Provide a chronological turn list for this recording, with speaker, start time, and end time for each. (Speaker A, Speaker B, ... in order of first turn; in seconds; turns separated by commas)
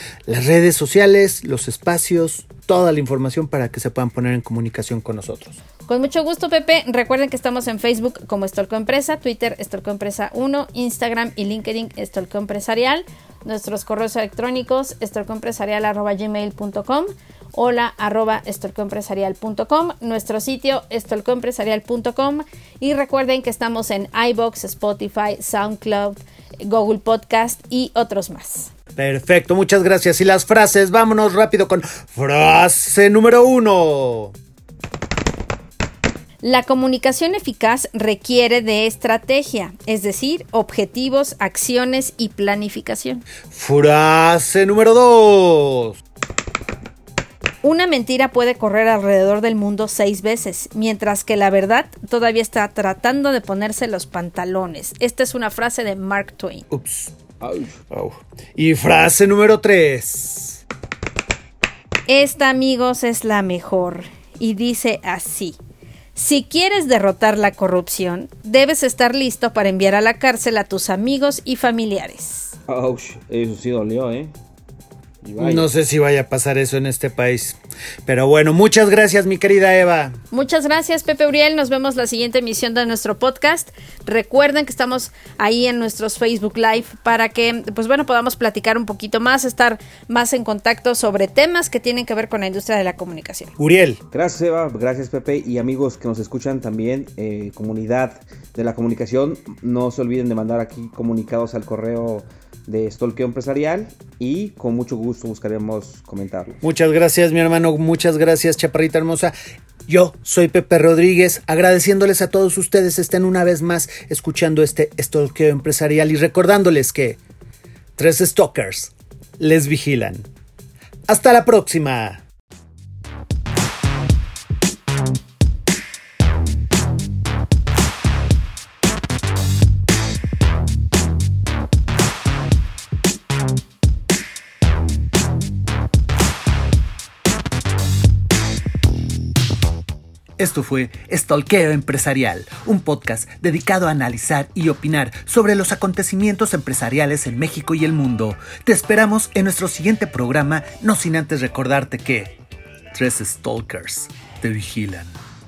Speaker A: 0.3-5.6, Speaker B: 5.8-28.7, Speaker A: 28.9-34.3, Speaker B: 36.4-43.2, Speaker A: 43.5-46.0, Speaker B: 47.6-56.6, Speaker A: 56.7-57.1, Speaker C: 57.4-57.8, Speaker A: 57.9-60.6, Speaker B: 62.1-65.6, Speaker B: 66.1-72.5, Speaker C: 72.7-74.3, Speaker C: 75.2-75.7, Speaker A: 75.4-80.2, Speaker B: 80.3-93.5, Speaker A: 93.6-94.0, Speaker C: 94.1-106.6, Speaker A: 106.6-109.3, Speaker A: 109.9-117.2, Speaker A: 118.0-120.3, Speaker A: 121.1-122.2, Speaker A: 140.4-152.3, Speaker A: 152.9-155.1